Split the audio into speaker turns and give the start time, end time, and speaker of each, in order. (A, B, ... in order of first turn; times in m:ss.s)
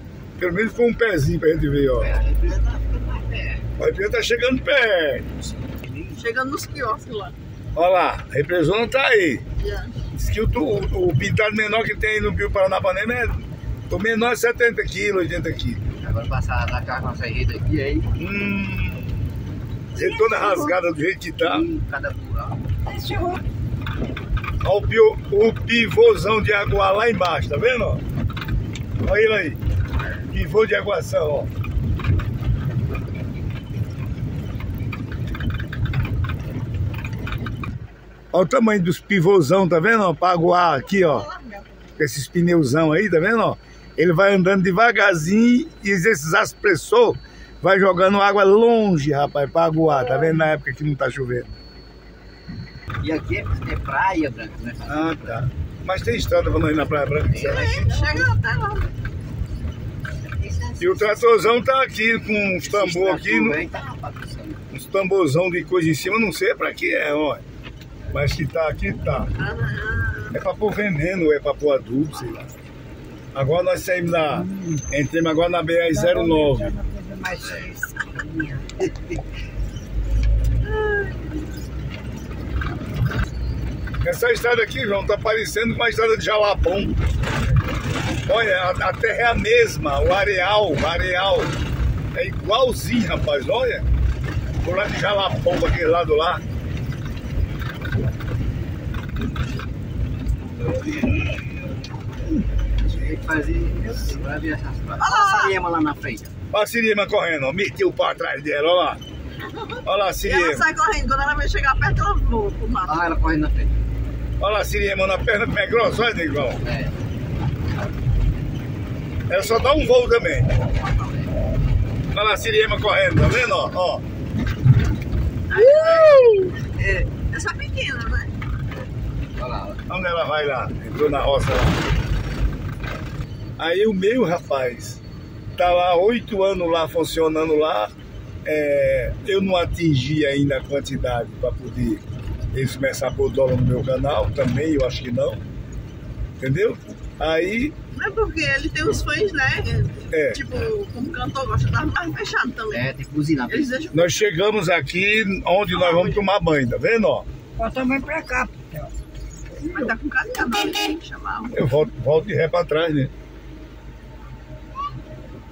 0:00.4-0:02.1 A
0:02.0-0:03.7 B
0:03.8-0:05.3 A
0:05.6-0:06.2 B
0:06.2-0:07.3 C
0:07.7-0:09.4 A
0:09.6-0:10.0 C
0:10.1-0:15.8 A
0:16.0-0:18.1 B
0:18.2-0:19.1 A
0:19.9-0:20.8 C
0:19.9-0:21.7 A
0:21.4-0:22.6 B
0:22.8-0:23.4 D
0:24.6-0:28.0 A
0:29.0-0:29.6 A
0:30.3-0:31.5 A
0:38.3-0:41.3 A
0:40.9-0:41.9 C
0:42.0-0:51.5 A
0:53.0-0:55.4 B
0:54.9-0:57.8 A
0:57.3-0:58.3 B
0:57.6-0:58.9 C
1:00.2-1:01.5 B
1:00.8-1:03.6 A
1:02.6-1:04.6 B
1:04.7-1:07.4 A
1:08.1-1:09.3 A
1:09.4-1:10.4 C
1:10.3-1:12.5 A
1:13.3-1:16.7 A
1:14.3-1:14.8 D
1:15.8-1:18.8 D
1:20.9-1:21.3 C
1:24.0-1:27.0 A
1:28.2-1:31.5 A
1:32.1-1:33.9 A
1:34.6-1:36.4 A
1:42.8-1:46.3 B
1:45.0-1:45.5 C
1:46.5-1:49.0 A
1:49.8-1:50.6 A
1:50.2-1:53.1 C
1:52.8-1:53.8 B
1:54.4-1:56.6 A
1:56.6-1:56.9 B
1:59.3-2:00.6 A
2:00.6-2:01.3 B
2:02.1-2:04.0 A
2:05.5-2:06.3 C
2:06.6-2:07.2 B
2:07.2-2:08.4 C
2:09.4-2:09.8 B
2:09.9-2:11.8 A
2:13.6-2:15.0 A
2:15.6-2:17.9 A
2:18.4-2:25.4 A
2:26.4-2:27.7 A
2:27.9-2:32.8 C
2:30.1-2:30.4 A
2:32.7-2:33.8 B
2:33.5-2:34.2 C
2:33.9-2:37.2 A
2:35.7-2:36.2 B
2:37.6-2:38.9 D
2:39.7-2:41.5 C
2:41.5-2:43.1 A